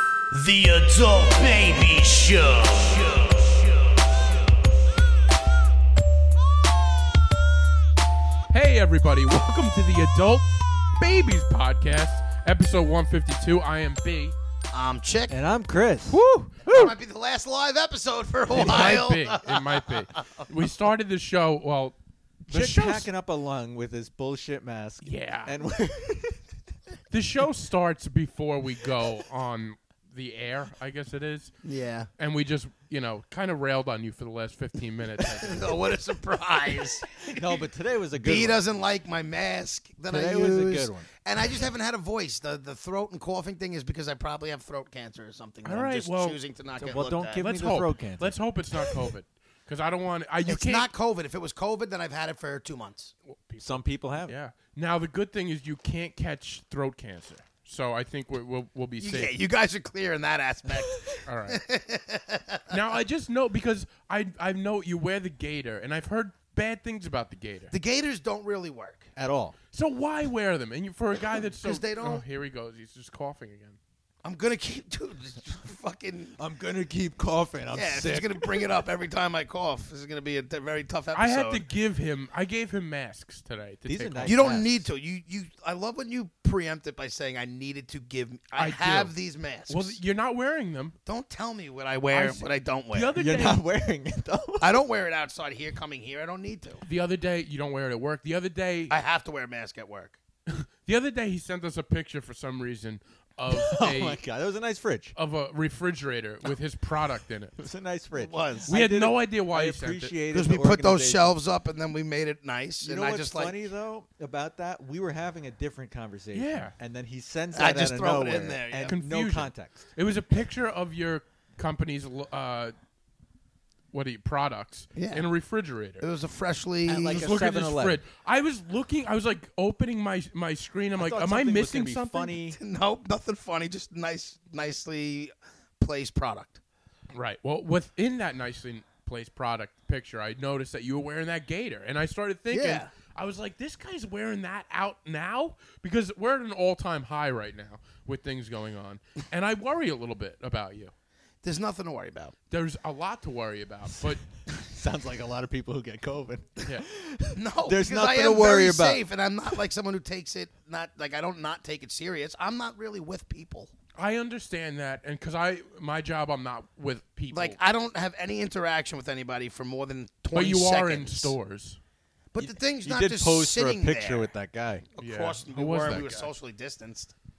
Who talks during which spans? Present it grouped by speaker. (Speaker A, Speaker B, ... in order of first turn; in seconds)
Speaker A: 0.3-3.6
Speaker B: 8.5-14.3, 16.1-16.9, 18.5-21.9, 22.5-23.1, 25.0-25.5, 27.1-31.5, 32.2-35.7, 45.6-46.4, 47.4-50.9, 53.2-53.7, 54.2-59.3, 61.2-61.6, 62.7-67.7, 69.7-73.8, 81.1-84.6, 88.5-89.1, 89.7-90.9, 92.1-93.6, 96.8-99.0, 100.5-104.2, 105.2-107.5, 108.7-110.1, 116.3-116.7, 118.9-122.7, 123.9-126.1, 127.1-132.4, 137.1-150.9, 152.5-154.2, 163.9-167.6, 170.3-171.8, 175.0-176.3
Speaker C: 14.7-15.3, 16.6-20.4, 31.6-32.1, 35.2-37.6, 38.2-47.5, 50.5-53.1, 59.0-62.8, 67.7-69.1, 71.6-72.2, 74.2-76.3, 77.7-81.7, 84.2-90.0, 91.0-93.1, 94.6-96.8, 98.9-100.2, 108.2-108.8, 110.3-113.7, 117.5-119.0, 125.0-125.2, 126.0-127.3, 132.5-136.6, 142.5-142.9, 151.4-152.3, 157.3-163.7, 167.3-171.3, 172.3-174.3, 174.9-177.1
Speaker D: 15.3-16.2, 18.6-19.0, 22.5-26.4, 37.2-38.6, 40.1-41.1, 46.8-48.3, 53.6-54.3, 69.2-69.5, 76.4-78.7, 83.9-84.8, 93.2-94.8, 103.5-105.1, 107.6-111.3, 112.8-119.9, 126.9-128.0, 130.9-132.6, 154.5-159.0, 172.4-174.8